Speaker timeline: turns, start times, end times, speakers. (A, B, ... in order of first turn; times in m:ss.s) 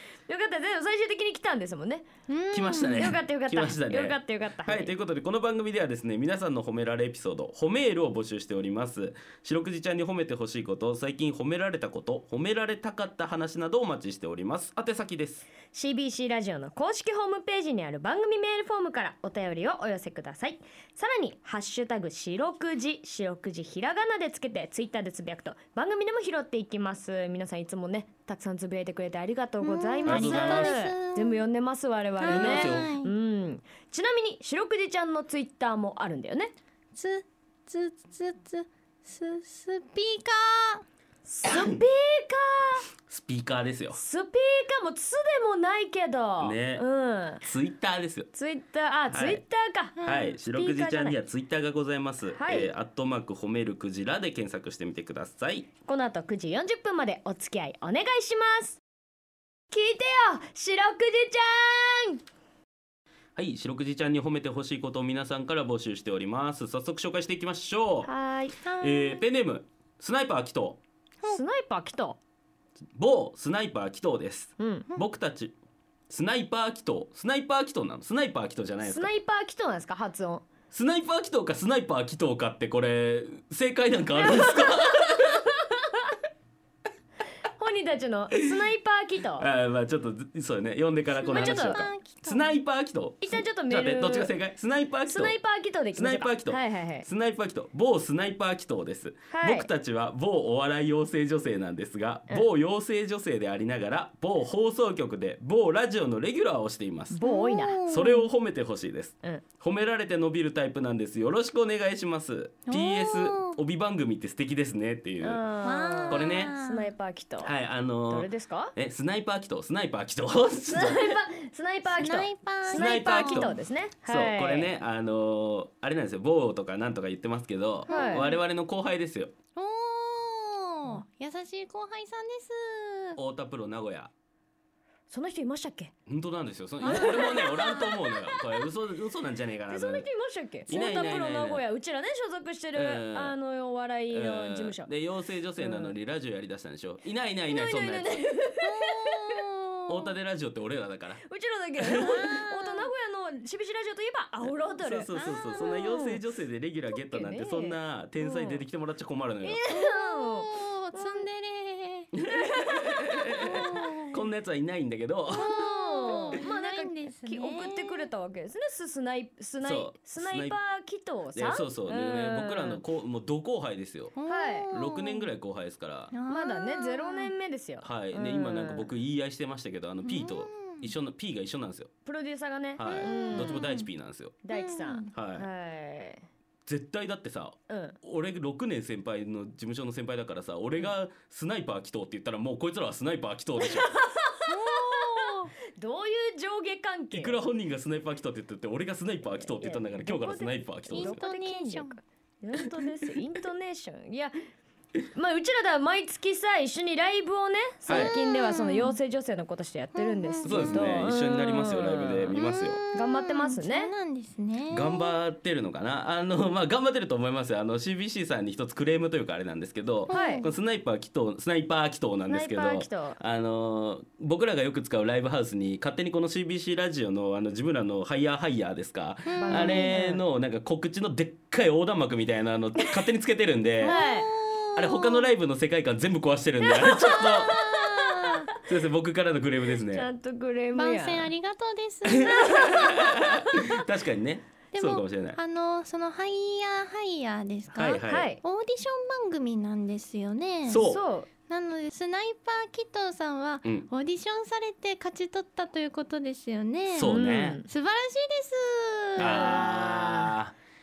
0:00.3-0:02.1 A
0:02.3-0:03.2 B
0:02.5-0:15.4 C
0:02.9-0:04.9 A
0:15.7-0:36.5 A
0:29.6-0:31.4 B
0:30.1-0:30.8 C
0:32.2-0:33.1 B
0:32.2-0:32.9 C
0:37.0-0:40.8 B
0:41.2-0:42.9 A
0:43.1-0:44.0 C
0:43.9-0:47.4 A
0:46.4-0:46.8 C
0:47.4-0:48.3 C
0:48.3-0:51.2 A
0:49.1-0:49.4 C
0:50.0-0:50.4 B
0:50.0-0:55.7 C
0:52.3-0:52.7 A
0:55.9-0:58.8 A
0:59.7-1:02.2 A
1:03.4-1:08.1 C
1:08.0-1:08.6 A
1:08.6-1:09.2 B
1:08.8-1:10.8 C
1:11.2-1:12.2 A
1:12.9-1:15.5 C
1:14.6-1:14.9 A
1:16.1-1:19.1 C
1:18.8-1:20.5 A
1:20.7-1:25.4 C
1:24.2-1:26.1 A
1:27.6-1:29.5 A
1:29.4-1:35.4 C
1:31.2-1:32.6 B
1:31.3-1:31.8 A
1:33.2-1:34.4 A
1:35.0-1:37.1 A
1:36.0-1:47.2 C
1:39.3-1:39.7 A
1:47.1-1:47.8 A
1:47.2-1:48.3 B
1:47.9-1:55.4 C
1:52.7-1:53.6 B
1:55.2-1:57.6 A
1:55.6-1:56.9 B
1:56.1-1:56.5 C
1:57.4-2:01.2 C
1:58.1-1:58.7 A
2:00.7-2:04.7 A
2:01.9-2:03.6 B
2:02.7-2:03.5 C
2:04.1-2:09.3 C
2:07.9-2:08.3 A
2:07.9-2:08.4 B
2:09.6-2:13.2 B
2:13.2-2:14.1 C
2:15.1-2:15.9 A
2:16.1-2:20.1 C
2:16.8-2:17.9 B
2:16.8-2:18.7 A
2:19.7-2:24.9 A
2:20.7-2:21.6 C
2:22.7-2:23.4 C
2:24.1-2:28.2 C
2:25.6-2:26.0 A
2:27.5-2:29.4 A
2:28.6-2:30.1 B
2:29.9-2:31.2 C
2:31.3-2:35.1 A
2:31.8-2:32.2 C
2:32.1-2:32.9 B
2:34.8-2:39.6 C
2:35.1-2:35.9 B
2:35.6-2:36.2 A
2:36.9-2:38.6 A
2:39.4-2:41.3 A
2:39.7-2:42.1 B
2:42.1-2:45.5 C
2:42.3-2:43.4 A
2:43.4-2:44.2 B
2:45.3-2:48.1 B
2:45.3-2:52.8 A
2:49.6-2:50.6 C
2:51.3-2:54.1 C
2:54.2-2:55.3 B
2:54.3-2:54.7 A
2:54.7-2:56.1 C
2:56.1-2:57.3 B
2:56.3-2:58.9 A
2:57.8-3:01.9 C
3:00.0-3:00.9 B
3:02.0-3:03.6 A
3:02.8-3:04.4 C
3:02.8-3:03.9 B
3:04.4-3:06.2 A
3:04.5-3:05.1 B
3:05.1-3:05.5 C
3:06.7-3:13.9 C
3:07.7-3:08.0 A
3:13.6-3:17.4 A
3:14.4-3:15.5 B
3:17.1-3:21.2 C
3:19.2-3:24.4 A
3:20.9-3:22.0 B
3:25.1-3:32.4 A
3:27.9-3:28.1 C
3:27.9-3:29.0 B
3:29.9-3:31.2 B
3:30.4-3:32.8 C
3:32.4-3:35.2 B
3:32.9-3:33.9 A
3:34.7-3:54.0 C
3:40.1-3:40.5 B
3:40.1-3:40.5 A
3:42.3-3:43.2 A
3:49.3-3:49.9 B
3:49.4-3:50.2 A
3:53.8-3:55.3 B
3:53.8-3:54.3 A
3:54.8-3:57.6 C
3:56.7-3:58.3 A
3:56.8-3:58.5 B
3:58.7-4:00.1 C
3:59.8-4:01.3 A
4:00.7-4:03.2 B
4:02.1-4:05.4 C
4:02.4-4:03.6 A
4:04.7-4:10.9 B
4:07.7-4:08.3 C
4:08.0-4:08.4 A
4:10.6-4:11.0 C
4:10.8-4:11.3 A
4:11.5-4:19.8 B
4:16.9-4:17.6 C
4:17.0-4:17.6 A
4:19.2-4:20.3 A
4:19.2-4:20.6 C